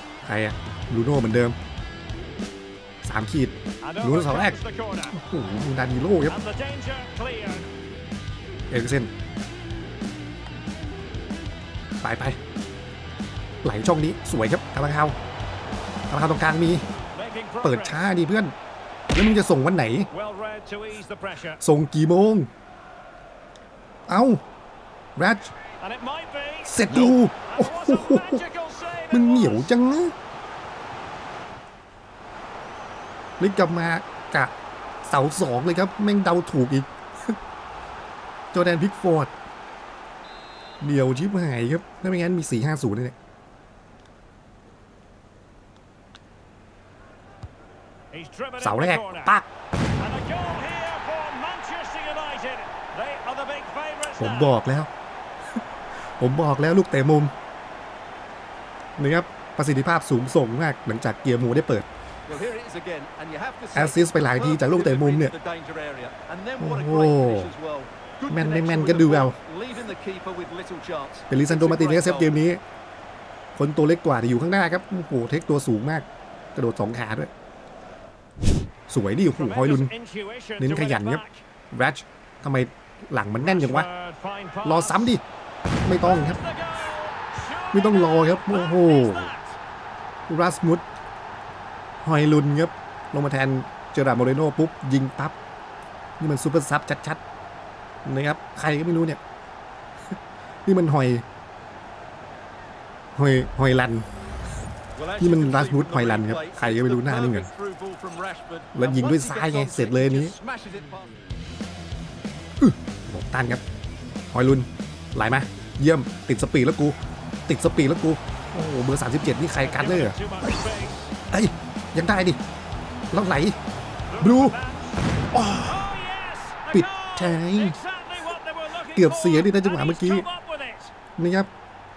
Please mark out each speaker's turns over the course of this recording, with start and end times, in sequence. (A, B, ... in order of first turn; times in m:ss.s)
0:00.2-0:01.6 A
0:03.0-0:04.6 A
0:03.8-0:05.2 B
0:05.1-0:06.4 A
0:06.3-0:07.7 B
0:08.7-0:09.1 A
0:12.0-0:12.4 A
0:13.6-0:15.2 A
0:16.1-0:16.8 A
0:17.1-0:18.1 B
0:17.6-0:18.5 A
0:19.1-0:20.1 A
0:20.1-0:21.6 B
0:21.6-0:22.5 A
0:24.1-0:24.4 A
0:25.2-0:25.5 A
0:25.8-0:26.8 B
0:26.7-0:28.4 A
0:27.4-0:29.7 B
0:29.1-0:30.1 A
0:33.4-0:34.5 A
0:35.0-0:37.4 A
0:38.5-0:39.3 A
0:40.8-0:43.1 A
0:48.1-0:49.3 B
0:48.6-0:49.5 A
0:49.9-0:54.6 B
0:54.1-0:54.9 A
0:56.2-0:57.3 A
0:59.0-1:01.9 A
1:02.3-1:12.4 C
1:03.7-1:05.3 A
1:06.6-1:07.5 A
1:08.3-1:09.4 A
1:11.3-1:12.6 A
1:13.5-1:17.3 A
1:18.9-1:19.9 A
1:19.3-1:21.4 B
1:20.6-1:23.9 A
1:23.4-1:25.1 B
1:24.6-1:25.2 A
1:25.8-1:26.4 A
1:26.0-1:29.6 B
1:27.7-1:29.3 A
1:30.3-1:30.8 A
1:32.0-1:35.4 A
1:36.2-1:37.2 A
1:38.0-1:39.2 A
1:40.6-1:41.2 A
1:43.1-1:44.0 A
1:45.0-1:51.2 C
1:45.2-1:47.5 A
1:48.7-1:50.3 A
1:52.6-1:53.6 A
1:54.3-2:00.2 A
1:59.5-2:01.1 B
2:01.3-2:02.4 A
2:03.1-2:03.6 A
2:04.1-2:05.1 B
2:04.2-2:04.6 A
2:05.3-2:05.9 A
2:05.6-2:10.9 B
2:06.7-2:07.8 A
2:08.9-2:10.3 A
2:11.2-2:11.5 A